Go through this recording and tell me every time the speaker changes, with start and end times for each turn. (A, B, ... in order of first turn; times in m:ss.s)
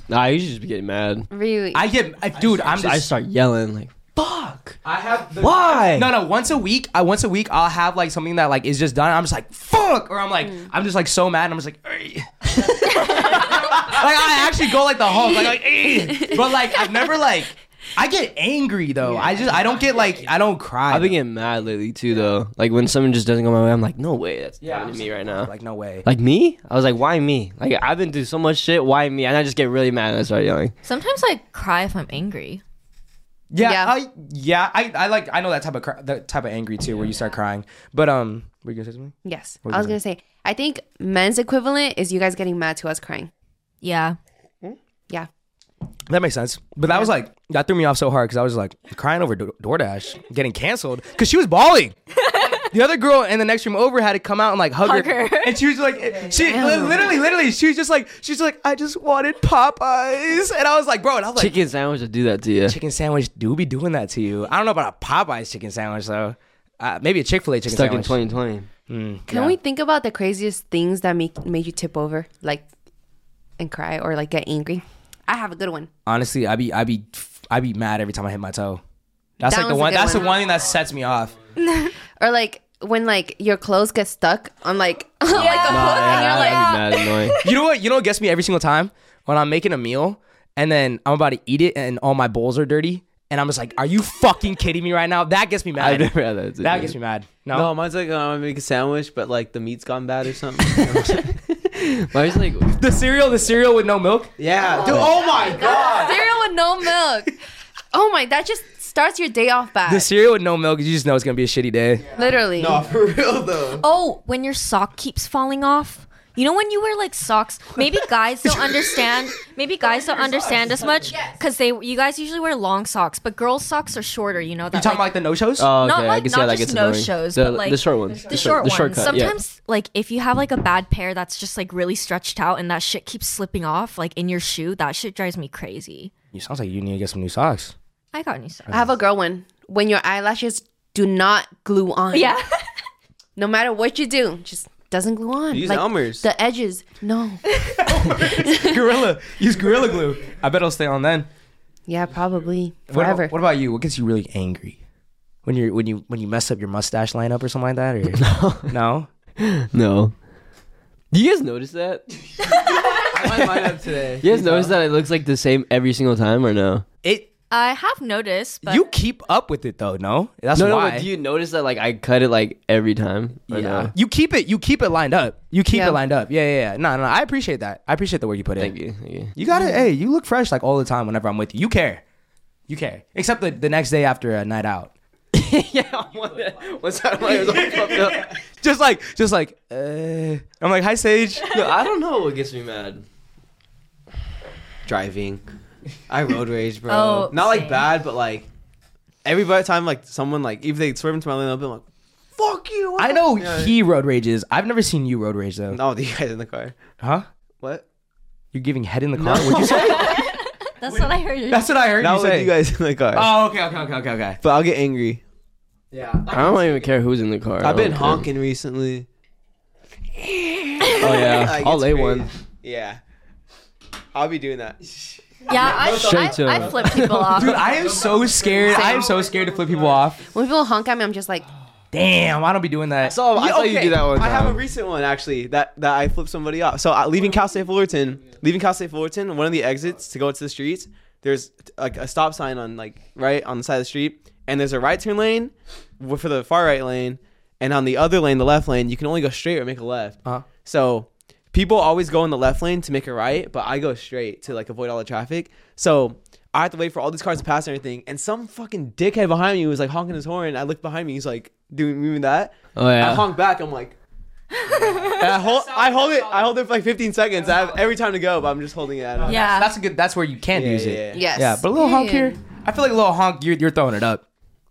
0:00.1-0:01.3 A
0:01.3-0:01.9 B
0:01.7-0:03.1 C
0:02.4-0:04.8 A
0:04.8-0:21.2 C
0:05.4-0:06.1 A
0:10.4-0:10.7 B
0:15.8-0:16.5 B
0:19.0-0:19.4 B
0:20.9-0:25.5 A
0:24.6-0:26.1 C
0:26.0-0:30.7 A
0:30.8-0:32.6 D
0:33.5-0:39.1 C
0:33.6-0:33.9 B
0:39.2-0:43.3 B
0:39.6-0:40.0 C
0:43.8-0:44.2 D
0:46.1-0:51.9 C
0:52.1-0:52.6 D
0:52.5-1:01.6 C
0:54.8-0:55.6 D
0:56.3-0:57.1 B
1:01.4-1:02.8 A
1:02.7-1:08.2 C
1:07.7-1:08.7 A
1:08.9-1:09.6 C
1:09.3-1:12.6 B
1:13.6-1:15.9 B
1:16.0-1:18.8 C
1:19.4-1:21.3 C
1:19.4-1:20.5 B
1:21.6-1:21.9 D
1:22.2-1:26.8 B
1:25.3-1:27.5 D
1:25.6-1:27.4 A
1:27.4-1:37.7 C
1:35.8-1:36.9 A
1:37.5-1:41.3 E
1:40.6-1:42.8 A
1:42.8-1:45.8 C
1:44.4-1:46.2 E
1:45.4-1:47.4 B
1:47.9-1:50.1 B
1:49.8-1:52.1 C
1:52.1-1:52.9 B
1:52.6-1:53.8 E
1:53.8-2:05.1 D
2:04.7-2:05.7 C
2:05.6-2:09.4 A
2:05.8-2:16.1 D
2:16.3-2:17.7 C
2:18.1-2:18.7 D
2:18.7-2:18.9 C
2:18.7-2:22.4 B
2:22.1-2:22.5 D
2:23.4-2:28.9 B
2:25.5-2:26.2 E
2:27.8-2:31.3 C
2:31.9-2:33.3 B
2:32.9-2:34.8 C
2:35.4-2:39.1 C
2:38.2-2:38.7 A
2:39.4-2:40.1 A
2:41.1-2:42.0 A
2:42.9-2:44.7 E
2:43.0-2:46.8 A
2:47.0-2:47.3 C
2:47.5-2:48.9 D
2:48.6-2:51.1 C
2:50.5-2:53.9 A
2:53.5-2:58.7 C
2:55.7-2:56.0 B
2:58.6-2:59.3 A
2:59.3-3:02.0 C
2:59.5-2:59.8 B
3:02.7-3:04.9 C
3:05.3-3:08.3 A
3:07.7-3:11.6 C
3:11.4-3:13.0 A
3:14.8-3:15.4 E
3:16.1-3:18.5 E
3:16.9-3:17.9 D
3:19.2-3:21.8 E
3:22.4-3:23.7 E
3:23.0-3:25.8 C
3:25.7-3:26.8 E
3:27.0-3:27.2 C
3:27.6-3:27.8 E
3:28.5-3:30.2 C
3:29.1-3:30.2 E
3:29.7-3:31.7 D
3:30.8-3:32.5 C
3:32.0-3:33.3 E
3:33.1-3:34.4 C
3:34.4-3:35.2 E
3:35.9-3:36.4 C
3:36.3-3:38.3 A
3:37.6-3:39.1 E
3:40.9-3:43.0 E
3:40.9-3:42.3 A
3:44.1-3:44.8 E
3:45.5-3:47.7 D
3:45.7-3:46.7 E
3:45.7-3:47.5 A
3:47.3-3:50.2 C
3:48.6-3:49.2 B
3:50.2-3:51.5 B
3:51.9-3:54.0 C
3:53.0-3:54.6 A
3:53.4-4:23.9 E
4:22.8-4:23.2 A
4:24.6-4:25.2 D
4:25.0-4:29.4 E
4:25.5-4:26.5 C
4:29.2-4:34.2 C
4:29.2-4:29.7 D
4:30.5-4:31.3 E
4:31.1-4:32.4 B